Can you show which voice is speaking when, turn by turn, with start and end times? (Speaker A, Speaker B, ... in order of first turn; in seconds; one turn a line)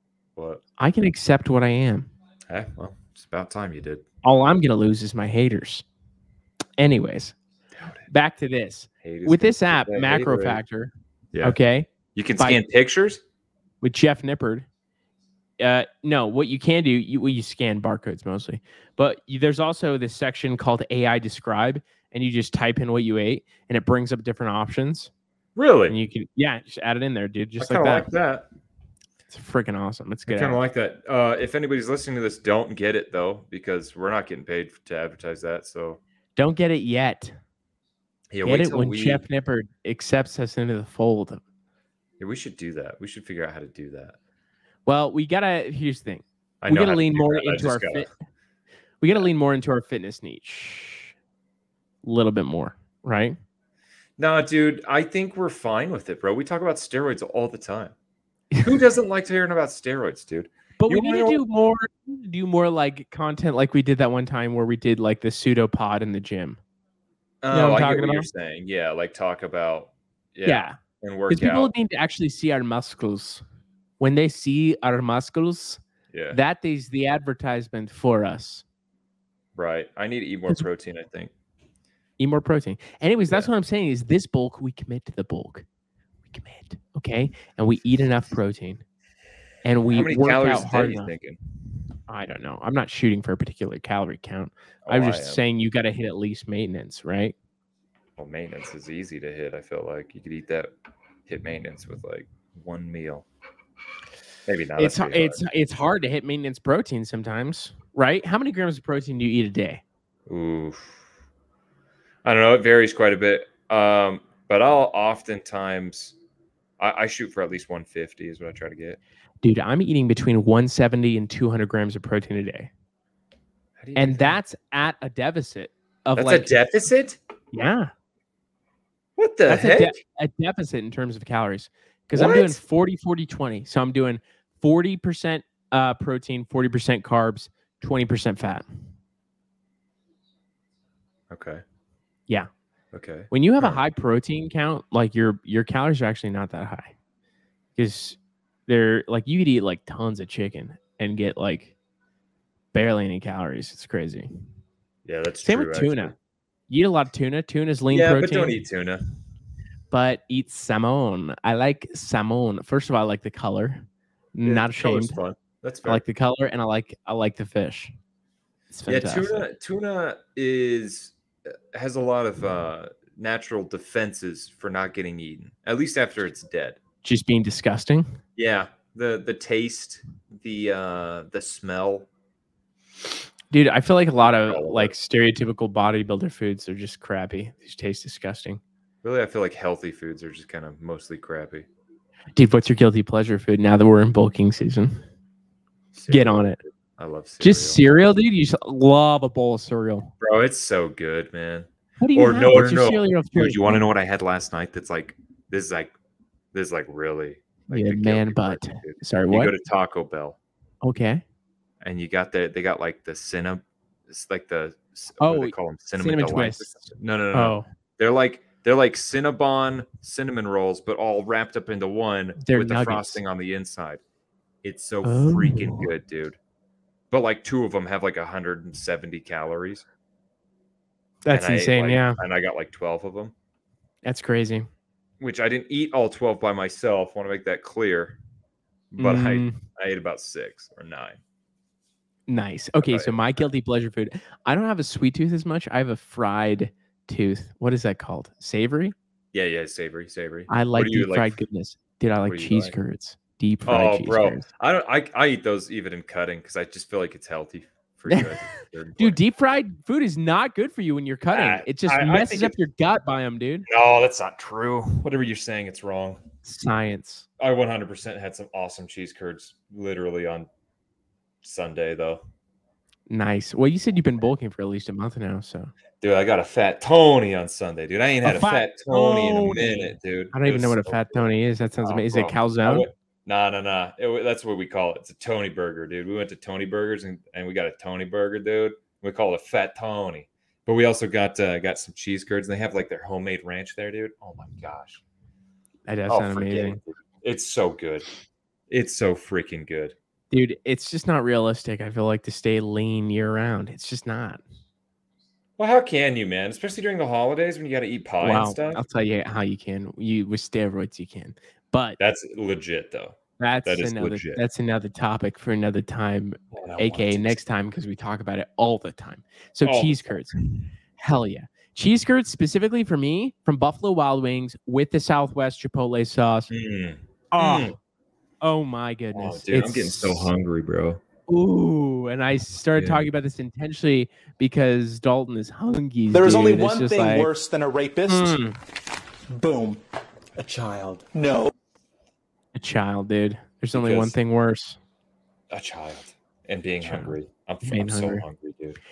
Speaker A: 0.3-0.6
Speaker B: 0.8-2.1
Speaker A: 2.5-4.0
Speaker B: 4.2-5.8
Speaker B: 6.8-7.3
Speaker B: 8.1-12.6
Speaker A: 9.0-10.6
Speaker A: 11.3-11.6
Speaker A: 12.1-13.2
Speaker B: 13.8-14.7
Speaker B: 15.6-25.1
Speaker A: 25.6-26.0
Speaker B: 25.9-28.1
Speaker A: 27.6-28.5
Speaker B: 29.3-30.6
Speaker A: 30.3-36.0
Speaker B: 36.4-37.3
Speaker A: 38.3-39.2
Speaker B: 38.4-41.4
Speaker A: 42.2-44.2
Speaker B: 44.9-48.1
Speaker A: 46.6-48.1
Speaker B: 49.0-51.1
Speaker B: 52.0-53.4
Speaker A: 54.2-57.9
Speaker A: 58.6-61.4
Speaker B: 60.8-66.6
Speaker A: 67.4-71.7
Speaker B: 67.5-68.3
Speaker B: 70.4-70.8
Speaker B: 71.3-73.4
Speaker B: 74.0-78.6
Speaker A: 76.1-76.4
Speaker A: 79.5-81.3
Speaker B: 82.2-85.7
Speaker B: 86.3-88.8
Speaker B: 89.6-91.1
Speaker A: 89.9-91.4
Speaker B: 92.1-97.3
Speaker A: 94.8-95.4
Speaker A: 98.2-100.7
Speaker A: 101.3-103.3
Speaker A: 104.5-105.4
Speaker B: 104.8-109.8
Speaker A: 110.3-111.0
Speaker A: 112.2-116.2
Speaker A: 116.8-119.0
Speaker B: 119.4-122.7
Speaker A: 123.8-124.4
Speaker B: 124.0-126.5
Speaker A: 126.2-127.2
Speaker B: 127.5-127.9
Speaker A: 129.2-130.0
Speaker B: 129.4-138.6
Speaker A: 132.1-132.6
Speaker A: 141.3-141.6
Speaker A: 142.9-143.8
Speaker B: 143.3-146.9
Speaker B: 147.8-151.7
Speaker B: 152.7-154.3
Speaker A: 155.0-156.1
Speaker B: 155.4-156.1
Speaker B: 156.7-158.6
Speaker A: 157.9-159.0
Speaker B: 159.9-163.8
Speaker B: 164.3-165.2
Speaker A: 164.4-166.0
Speaker B: 165.8-167.9
Speaker B: 168.7-169.5
Speaker A: 168.9-176.8
Speaker B: 177.0-178.2
Speaker A: 178.3-182.1
Speaker B: 183.5-188.6
Speaker A: 184.2-184.9
Speaker A: 189.0-191.7
Speaker B: 192.3-195.0
Speaker A: 195.9-197.8
Speaker B: 196.1-196.6
Speaker B: 197.4-200.1
Speaker A: 200.2-205.9
Speaker B: 202.0-203.8
Speaker A: 206.5-210.4
Speaker B: 207.7-209.5
Speaker B: 210.8-211.2
Speaker A: 211.8-224.0
Speaker B: 215.2-217.7
Speaker B: 222.4-223.2
Speaker A: 224.6-226.4
Speaker B: 225.0-225.9
Speaker A: 227.1-229.8
Speaker B: 231.2-232.2
Speaker A: 231.3-233.3
Speaker B: 234.0-234.7
Speaker A: 235.2-238.2
Speaker A: 238.9-241.2
Speaker B: 239.0-239.6
Speaker B: 242.3-248.9
Speaker A: 242.8-243.5
Speaker A: 249.3-251.4
Speaker B: 250.5-254.5
Speaker A: 252.3-252.7
Speaker A: 253.7-259.2
Speaker B: 258.1-258.4
Speaker B: 259.0-263.6
Speaker A: 261.3-262.6
Speaker A: 263.7-266.2
Speaker B: 266.4-267.2
Speaker A: 267.4-270.5
Speaker A: 271.4-272.2
Speaker B: 273.1-275.7
Speaker A: 276.0-281.3
Speaker B: 278.2-282.9
Speaker A: 281.8-295.0
Speaker B: 295.9-296.8
Speaker A: 296.1-298.1
Speaker A: 298.7-299.9
Speaker B: 300.3-304.4
Speaker A: 305.6-308.8
Speaker B: 308.2-312.0
Speaker A: 312.0-314.4
Speaker B: 313.4-320.3
Speaker A: 316.5-317.4
Speaker A: 319.6-320.6
Speaker B: 321.0-326.5
Speaker A: 326.5-327.7
Speaker B: 327.3-327.8
Speaker B: 328.4-330.3
Speaker A: 329.1-331.0
Speaker B: 331.3-337.3
Speaker A: 332.8-333.1
Speaker C: 336.1-338.4
Speaker B: 338.1-338.6
Speaker C: 339.3-339.8
Speaker C: 340.4-341.5
Speaker B: 342.5-344.8
Speaker A: 343.7-344.1
Speaker A: 345.5-348.8
Speaker B: 346.8-347.1
Speaker B: 347.6-348.2